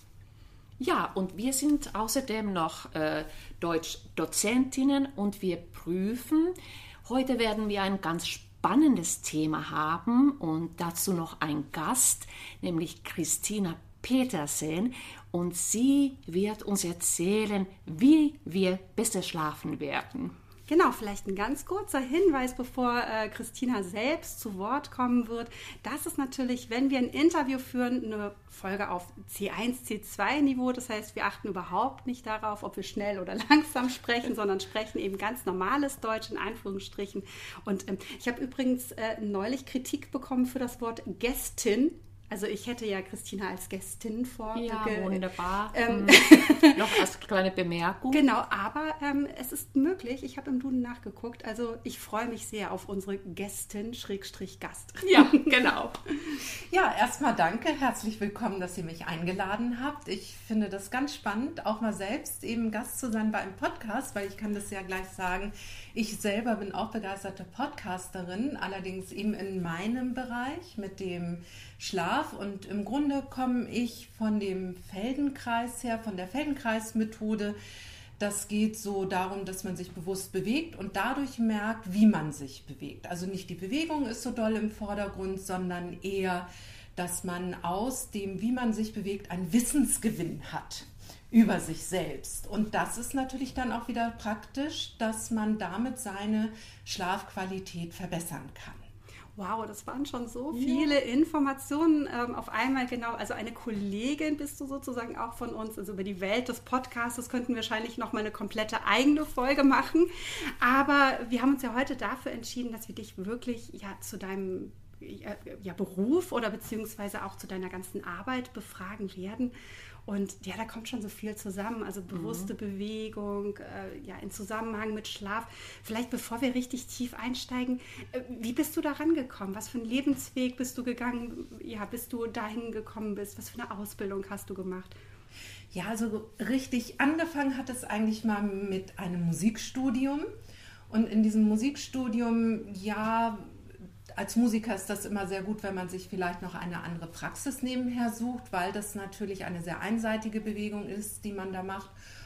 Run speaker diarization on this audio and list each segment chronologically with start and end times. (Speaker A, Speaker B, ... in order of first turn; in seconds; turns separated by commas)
Speaker A: 0.8-20.3, Speaker B: 20.7-47.0, Speaker A: 44.5-48.2, Speaker B: 48.1-55.6, Speaker A: 55.0-56.0, Speaker C: 56.7-77.5, Speaker C: 78.2-98.9, Speaker B: 99.4-119.5, Speaker B: 120.0-135.0, Speaker A: 122.1-122.5, Speaker C: 135.7-140.3, Speaker C: 140.9-151.9